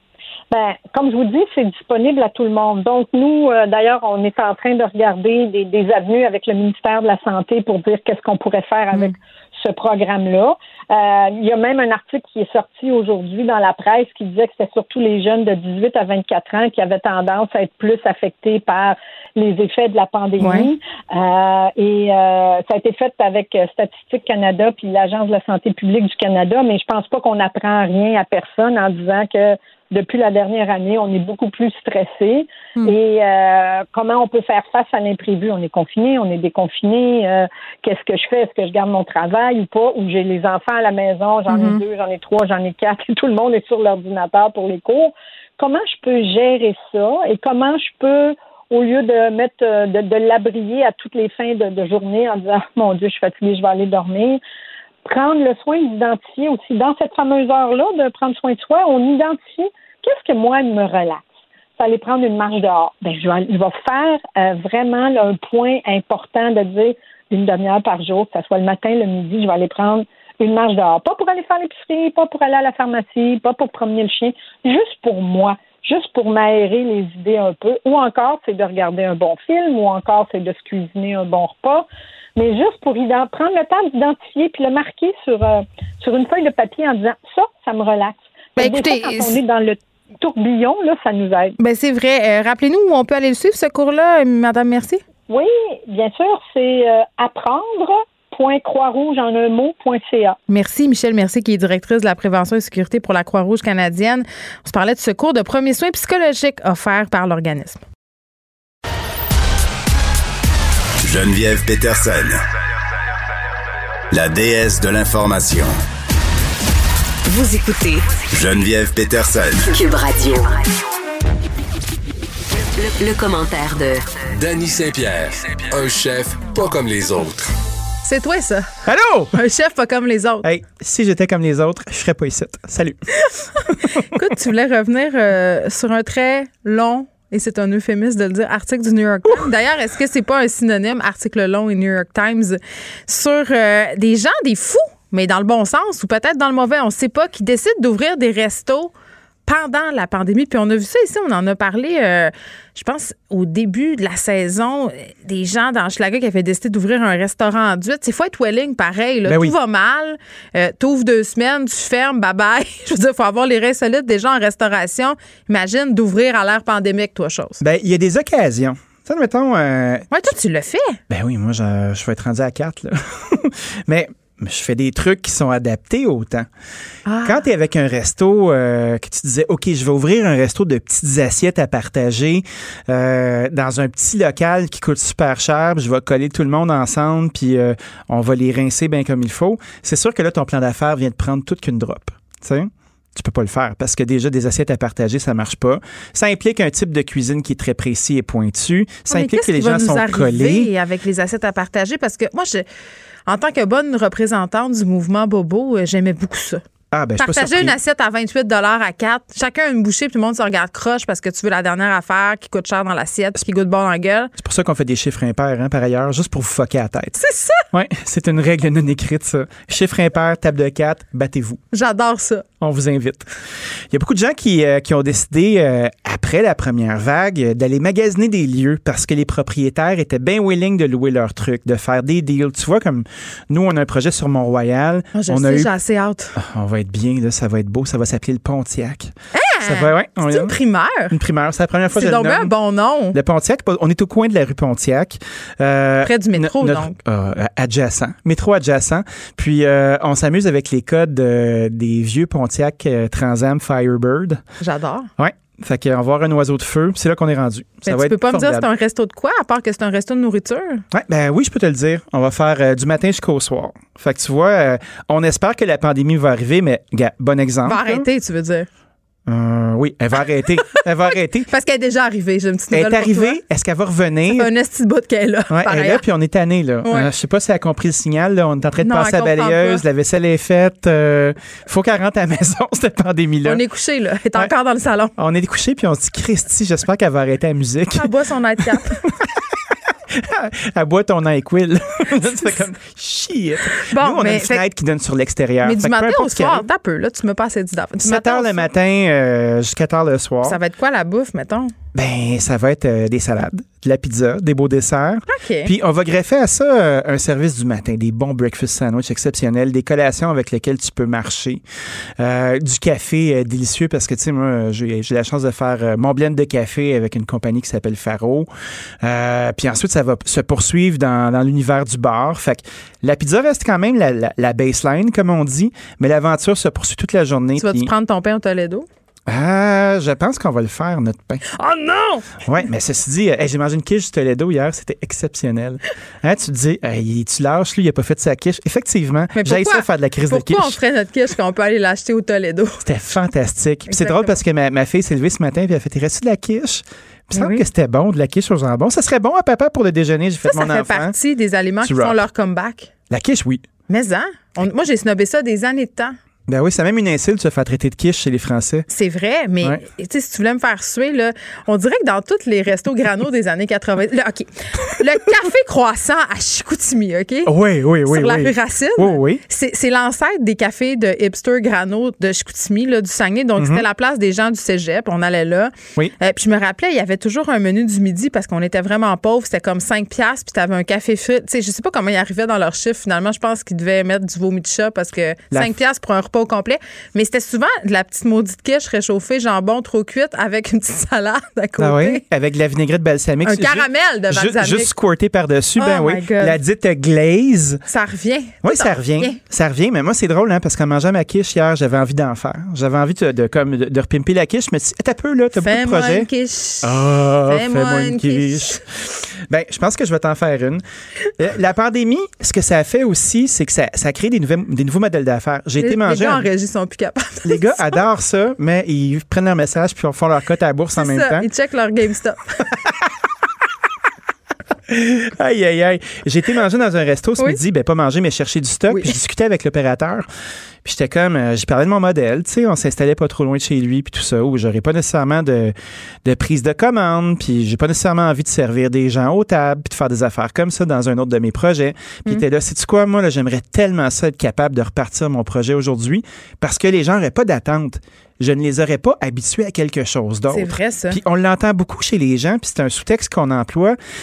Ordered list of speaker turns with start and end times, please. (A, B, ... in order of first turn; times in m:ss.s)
0:00.5-0:54.4 A
0:20.4-0:20.7 B
0:41.5-0:41.8 B
0:55.0-1:01.3 A
1:01.8-1:31.6 A
1:28.6-1:29.4 B
1:31.6-1:35.0 B
1:35.3-1:40.4 A
1:40.5-1:47.8 B
1:51.0-1:52.4 C
1:54.1-1:55.8 C
1:57.3-1:58.2 D
1:58.3-1:59.6 C
1:59.6-2:00.8 D
2:02.8-2:04.0 D
2:04.4-2:07.5 E
2:08.1-2:08.7 B
2:08.9-2:09.4 F
2:09.3-2:10.4 B
2:10.4-2:13.0 F
2:14.0-2:28.9 B
2:29.5-2:47.6 B
2:39.2-2:39.6 F
2:47.6-2:50.2 F
2:50.1-2:51.0 B
2:51.1-2:56.5 F
2:57.1-2:57.4 B
2:57.2-3:20.7 F
3:19.1-3:22.7 B
3:23.3-3:26.6 B
3:26.9-3:27.8 F
3:27.2-3:34.3 B
3:34.4-3:37.2 F
3:37.2-3:37.6 B
3:37.7-3:41.6 F
3:41.7-3:42.5 B
3:42.6-3:43.3 F
3:43.9-3:55.7 F
3:55.2-3:56.3 B
3:56.4-3:59.1 F
3:59.4-4:01.1 B
3:59.6-4:00.6 F
4:01.1-4:02.5 F
4:01.9-4:03.2 B
4:03.1-4:14.4 F
4:06.0-4:07.0 B
4:14.6-4:15.1 B
4:15.2-4:18.7 F
4:17.8-4:20.8 B
4:20.9-4:28.1 F
4:27.6-4:28.7 B
4:29.3-4:31.5 F
4:31.5-4:33.4 B
4:32.7-4:34.5 F
4:34.3-4:36.0 B
4:35.5-4:43.6 F
4:36.8-4:37.1 B
4:38.8-4:39.8 B
4:43.4-4:45.2 B
4:45.2-4:48.1 F
4:48.0-4:49.0 B
4:48.6-4:49.0 F
4:50.2-4:56.7 F
4:53.9-4:54.6 B
4:55.6-4:58.7 B
4:58.0-5:00.6 F
5:00.4-5:01.7 B
5:02.0-5:11.6 F
5:05.3-5:05.7 B
5:12.2-5:18.5 F
5:19.0-5:27.9 F
5:27.6-5:28.9 B
5:29.3-5:31.5 F
5:31.5-5:32.4 B
5:32.4-5:40.8 F
5:39.4-5:42.8 B
5:42.8-5:51.2 F
5:43.9-5:44.4 B
5:47.3-5:47.6 B
5:50.5-5:52.9 B
5:51.8-5:52.2 F
5:53.1-5:53.7 F
5:53.9-5:56.2 B
5:56.5-5:58.9 F
5:58.9-6:07.5 B
6:07.5-6:09.4 F
6:08.1-6:32.2 B
6:13.6-6:13.8 F
6:31.8-6:37.8 F
6:33.4-6:34.9 B
6:35.8-6:36.6 B
6:37.9-6:39.4 B
6:38.6-6:46.3 F
6:45.6-6:48.8 B
6:46.8-6:48.8 F
6:49.5-6:50.8 F
6:51.4-6:56.5 F
6:55.8-6:58.0 B
6:57.4-7:01.5 F
7:01.0-7:02.6 B
7:04.9-7:10.3 F
7:08.9-7:09.2 B
7:10.8-7:34.0 F
7:30.5-7:31.2 B